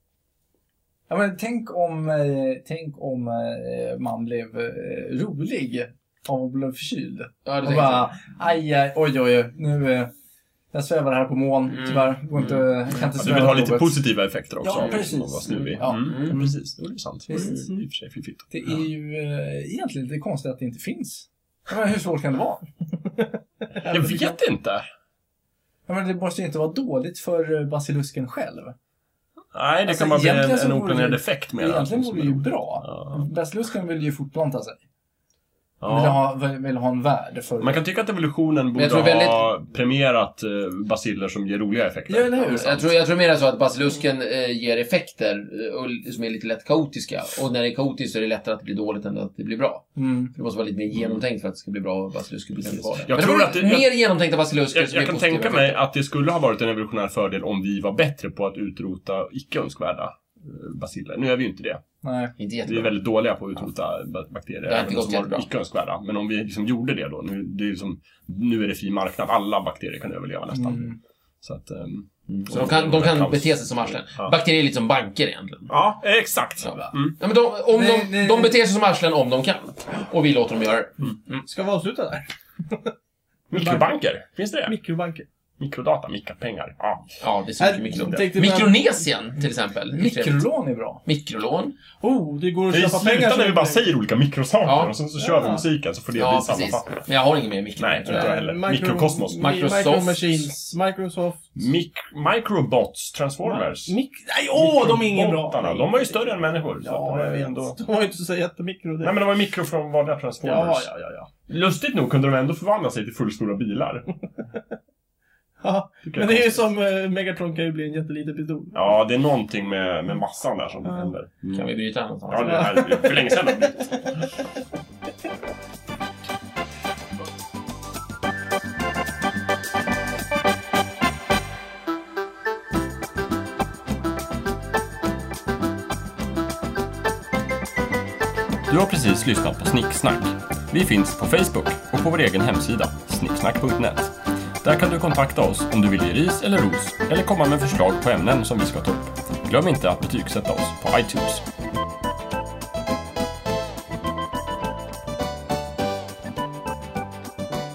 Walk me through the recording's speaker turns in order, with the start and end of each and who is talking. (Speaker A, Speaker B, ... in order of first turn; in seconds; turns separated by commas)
Speaker A: 1.1-10.1, Speaker B: 7.5-8.1, Speaker A: 10.7-14.0, Speaker B: 11.7-12.6, Speaker C: 13.2-18.5, Speaker A: 14.6-16.6, Speaker B: 14.8-15.1, Speaker B: 15.8-16.4, Speaker A: 17.3-17.7, Speaker A: 18.5-22.6, Speaker C: 23.8-24.9, Speaker D: 23.9-24.4, Speaker A: 25.9-28.8, Speaker C: 29.5-33.2, Speaker A: 29.9-34.8, Speaker C: 35.8-36.2, Speaker A: 35.9-37.8, Speaker C: 37.6-42.8, Speaker B: 38.8-39.5, Speaker A: 42.1-42.8, Speaker B: 42.4-55.8, Speaker A: 50.0-50.3, Speaker C: 50.9-51.2, Speaker C: 52.7-53.9, Speaker C: 54.7-61.8, Speaker A: 62.0-62.3, Speaker B: 62.4-62.9, Speaker C: 62.7-70.9, Speaker B: 64.7-65.5, Speaker A: 70.5-71.0, Speaker C: 71.4-74.3, Speaker B: 72.3-75.7, Speaker C: 75.7-77.2, Speaker B: 76.6-81.4, Speaker A: 77.7-78.6, Speaker D: 81.5-82.9, Speaker C: 83.5-84.8, Speaker A: 83.6-83.8, Speaker D: 84.7-85.3, Speaker C: 85.6-87.2, Speaker B: 87.2-90.5, Speaker D: 87.6-89.0, Speaker A: 89.9-91.0, Speaker B: 91.0-91.8, Speaker D: 92.0-93.9, Speaker C: 92.7-97.1, Speaker B: 94.6-95.0, Speaker D: 95.2-95.7, Speaker B: 96.1-98.4, Speaker C: 97.8-99.4, Speaker D: 98.1-101.4, Speaker B: 99.4-100.5, Speaker C: 101.6-104.0, Speaker D: 103.5-106.3, Speaker C: 104.5-107.8, Speaker D: 106.8-109.2, Speaker C: 109.0-110.9, Speaker D: 110.4-111.3, Speaker C: 111.5-114.1, Speaker D: 115.6-118.9, Speaker C: 116.1-116.6, Speaker C: 118.7-121.7, Speaker B: 121.5-122.7, Speaker C: 122.3-124.1, Speaker D: 122.4-124.1, Speaker C: 138.7-151.4